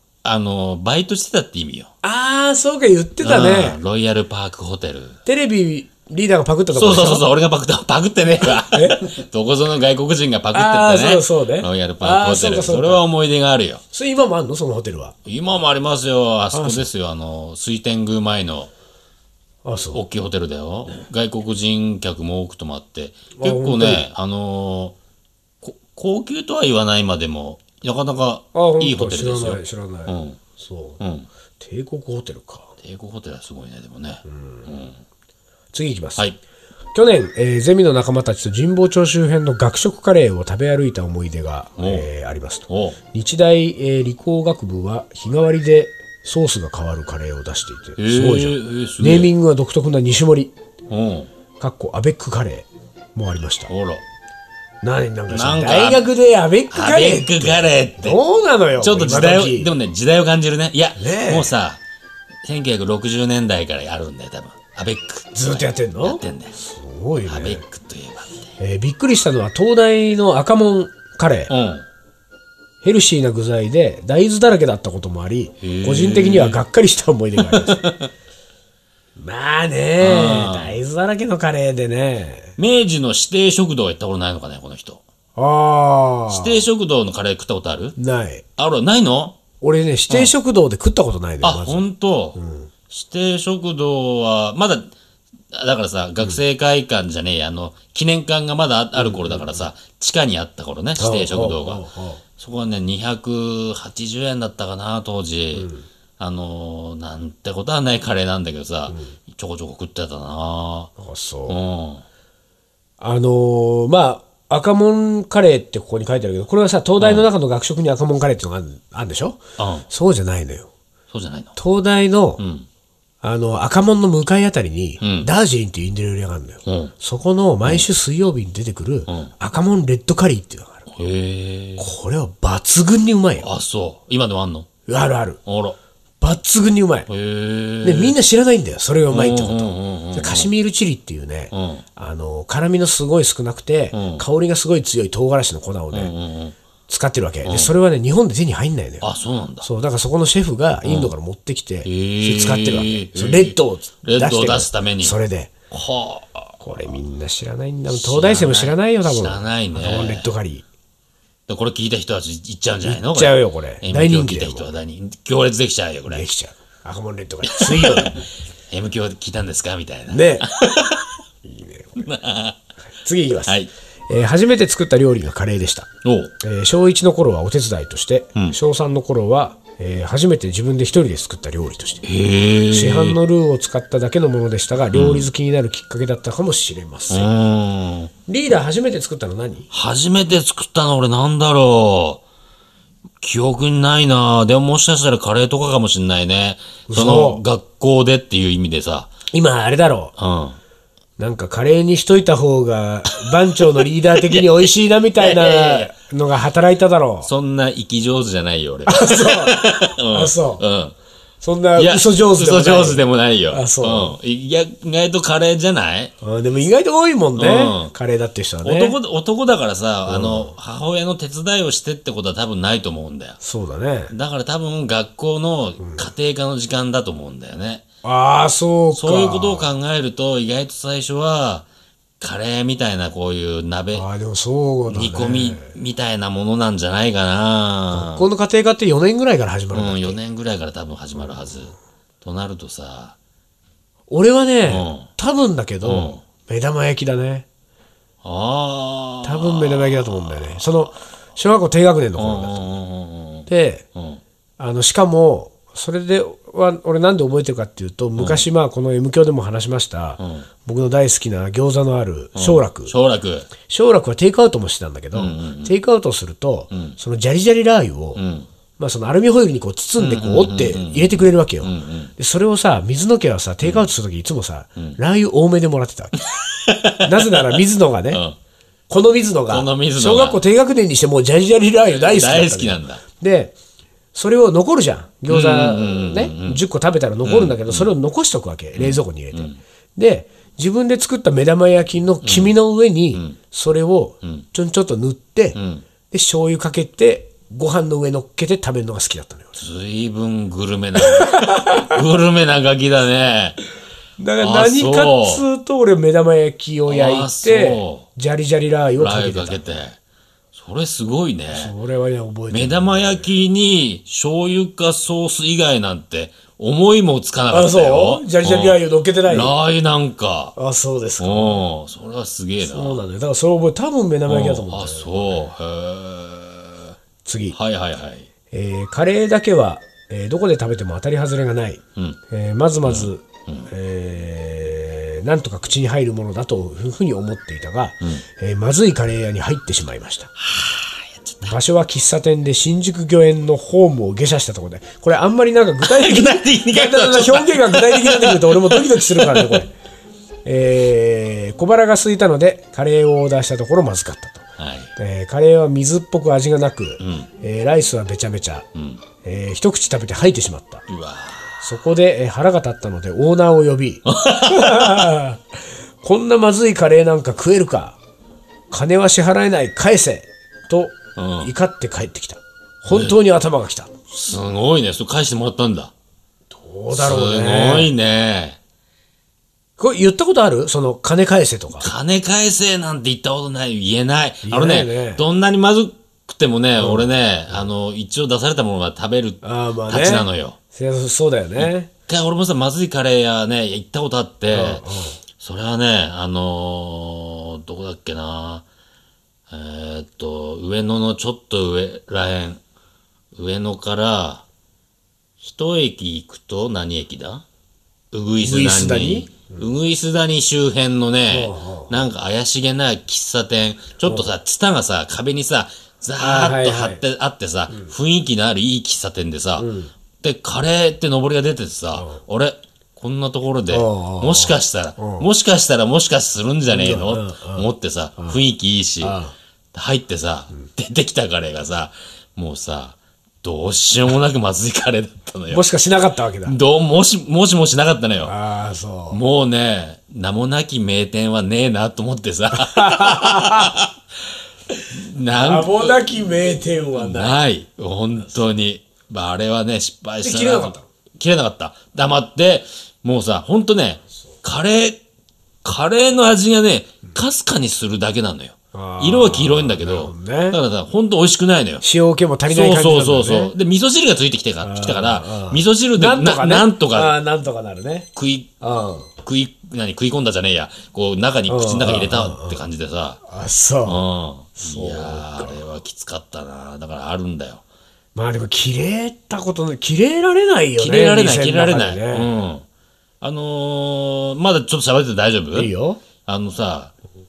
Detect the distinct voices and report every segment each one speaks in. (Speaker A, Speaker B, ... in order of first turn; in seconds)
Speaker A: 0.2-1.9, 3.2-5.2, 6.7-13.8, 15.2-18.7, 19.9-25.0, 25.6-30.4, 31.0-31.3, 32.8-35.0, 41.8-42.1, 42.7-43.0, 48.0-49.3, 50.9-51.3, 53.7-54.0, 55.3-56.1, 56.7-58.2, 58.8-61.8, 62.4-66.5, 67.2-68.4, 71.5-71.9, 75.6-76.6, 77.4-78.1, 80.0-80.8, 82.6-85.0, 86.3-88.0, 88.6-89.4, 91.4-94.9, 95.5-101.8, 102.4-110.9, 111.5-112.0, 117.0-117.3, 119.6-119.9, 121.1-121.5, 122.4-122.7, 125.0-125.3, 126.7-126.9, 129.1-129.3, 130.9-131.9, 133.4-134.7, 135.5-135.8, 137.1-138.2, 139.1-140.5, 141.5-141.9, 143.9-144.2, 145.9-146.6, 147.4-147.7, 149.0-149.7, 150.8-151.1, 151.8-155.2, 155.7-156.6, 157.9-160.3, 161.5-166.3, 167.5-171.2, 172.0-172.6, 176.0-176.3, 182.1-183.2, 184.9-185.3, 187.1-188.1, 189.7-192.2, 193.2-199.1, 200.2-200.6, 203.2-205.9, 207.2-210.9, 211.8-216.1, 217.4-217.9, 218.6-223.4, 224.1-227.8, 228.9-231.7, 232.2-234.1, 234.9-238.3, 239.7-243.2, 244.7-245.1, 245.8-246.2, 248.2-250.9, 252.2-254.2, 258.2-258.4, 260.2-260.5, 262.4-263.5, 265.1-265.8, 268.1-268.5, 270.0-272.1, 273.6-273.9, 276.2-278.4, 279.5-280.4, 281.9-283.0, 285.3-286.6, 287.2-287.9, 288.8-289.6, 292.2-292.6, 295.6-295.9, 299.6-303.6, 304.4-305.4, 306.9-308.1, 309.0-310.0, 310.5-311.7, 312.5-320.6, 321.2-323.0, 324.3-326.9, 327.5-328.3, 332.9-333.7, 340.4-341.6, 345.8-349.6, 354.6-354.9, 357.0-357.3, 358.8-359.0, 360.9-361.7, 364.1-365.2, 371.2-371.5, 372.9-373.2, 374.1-375.9, 376.9-378.6, 381.8-390.6, 391.6-394.9, 395.4-398.7, 399.5-402.6, 403.4-404.4, 405.4-407.4, 408.1-419.7, 420.2-429.2, 429.7-435.6, 436.4-438.3, 439.1-443.9, 444.9-446.1, 447.0-455.0, 455.6-461.8, 462.5-467.2, 468.2-468.5, 469.2-473.2, 473.9-477.6, 480.8-482.7, 483.2-486.9
Speaker B: 2.0-3.8, 5.2-7.3, 8.6-9.1, 10.5-13.1, 13.9-15.2, 16.5-16.9, 19.6-20.0, 23.4-24.1, 28.5-31.0, 31.6-32.8, 34.2-34.7, 35.7-36.2, 36.9-50.5, 51.6-53.7, 54.8-59.7, 61.0-61.5, 65.3-67.7, 68.6-71.5, 72.8-77.8, 79.2-82.6, 85.4-86.7, 88.0-88.4, 89.6-91.8, 92.4-92.7, 99.0-99.6, 101.0-102.2, 105.5-105.9, 108.9-109.2, 111.0-111.6, 113.0-120.7, 121.6-122.4, 123.2-130.8, 131.8-133.5, 134.9-135.4, 136.2-137.1, 137.8-146.1, 146.9-149.1, 149.6-155.5, 156.6-160.7, 162.8-164.7, 166.1-168.2, 170.1-170.5, 171.4-172.1, 173.0-173.6, 174.1-175.9, 176.4-182.1, 182.7-187.3, 188.3-189.7, 196.9-197.4, 199.3-200.1, 201.2-207.3, 208.9-210.6, 211.4-214.2, 216.2-219.0, 220.1-220.6, 223.4-224.1, 228.0-229.7, 233.9-235.8, 237.9-240.2, 244.1-247.5, 249.2-252.8, 253.5-253.8, 254.6-262.9, 263.7-268.2, 268.8-276.2, 277.0-278.2, 278.9-283.5, 284.1-295.6, 296.1-299.6, 301.0-302.0, 304.2-309.8, 311.5-313.3, 317.5-319.6, 320.6-321.6, 322.6-325.4, 327.2-327.6, 328.5-340.3, 341.4-349.7, 350.4-358.7, 359.2-360.9, 361.6-365.4, 366.0-368.0, 368.7-373.9, 376.5-377.9, 379.8-381.9, 384.4-385.2, 386.8-387.1, 389.4-391.9, 394.5-395.2, 408.4-409.7, 411.3-412.0, 416.2-417.0, 419.6-419.9, 421.9-422.2, 423.7-425.3, 426.7-427.7, 429.0-429.3, 435.5-436.6, 438.2-439.2, 442.5-443.8, 445.3-447.4, 450.2-450.9, 458.7-460.6, 461.8-463.5, 464.6-468.1, 468.6-469.1, 471.5-472.6, 473.3-474.0, 474.6-475.6, 478.1-482.3, 485.6-486.0